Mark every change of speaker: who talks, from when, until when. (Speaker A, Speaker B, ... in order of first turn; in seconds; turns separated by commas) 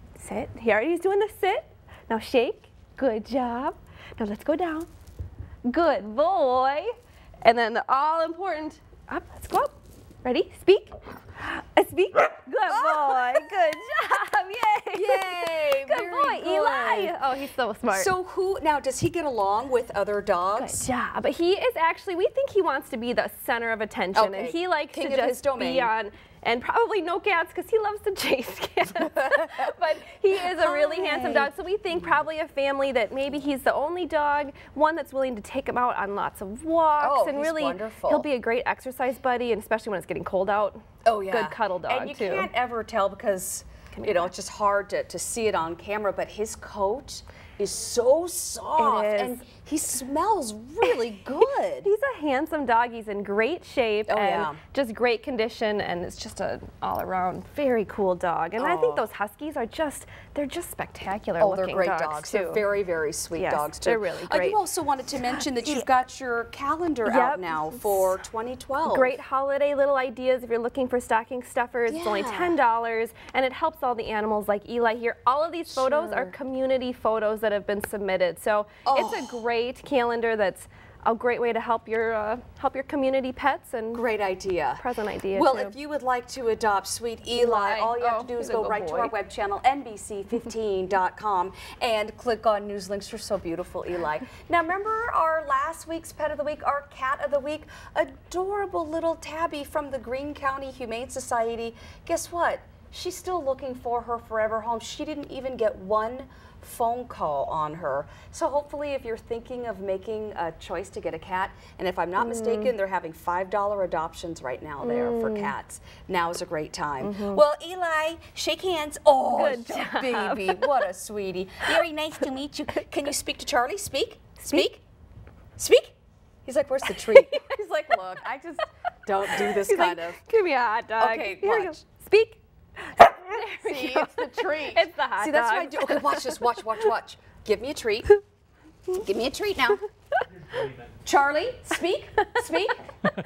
Speaker A: 0.2-4.9, Speaker A: 5.7-6.9, Speaker A: 7.4-18.1, Speaker B: 12.7-13.5, Speaker B: 14.9-17.2, Speaker B: 17.9-20.9, Speaker A: 20.6-42.5, Speaker B: 24.1-25.9, Speaker B: 29.1-29.7, Speaker B: 30.4-31.5, Speaker B: 37.0-38.3, Speaker B: 41.0-51.9, Speaker A: 44.0-44.3, Speaker A: 48.8-49.4, Speaker A: 51.8-62.6, Speaker B: 54.1-54.6, Speaker B: 58.6-59.0, Speaker B: 61.4-69.2, Speaker A: 63.3-64.6, Speaker A: 65.2-65.9, Speaker A: 67.0-68.1, Speaker A: 68.8-84.0, Speaker B: 71.9-72.6, Speaker B: 75.7-76.3, Speaker B: 78.8-79.4, Speaker B: 83.9-124.8, Speaker A: 84.8-85.8, Speaker A: 87.4-89.1, Speaker A: 112.2-112.7, Speaker A: 114.8-115.5, Speaker A: 117.0-117.4, Speaker A: 119.3-120.8, Speaker A: 124.4-124.7, Speaker B: 125.6-130.2, Speaker A: 126.9-128.2, Speaker A: 129.3-136.5, Speaker B: 131.0-131.8, Speaker B: 133.1-138.2, Speaker B: 138.9-139.8, Speaker B: 141.0-142.9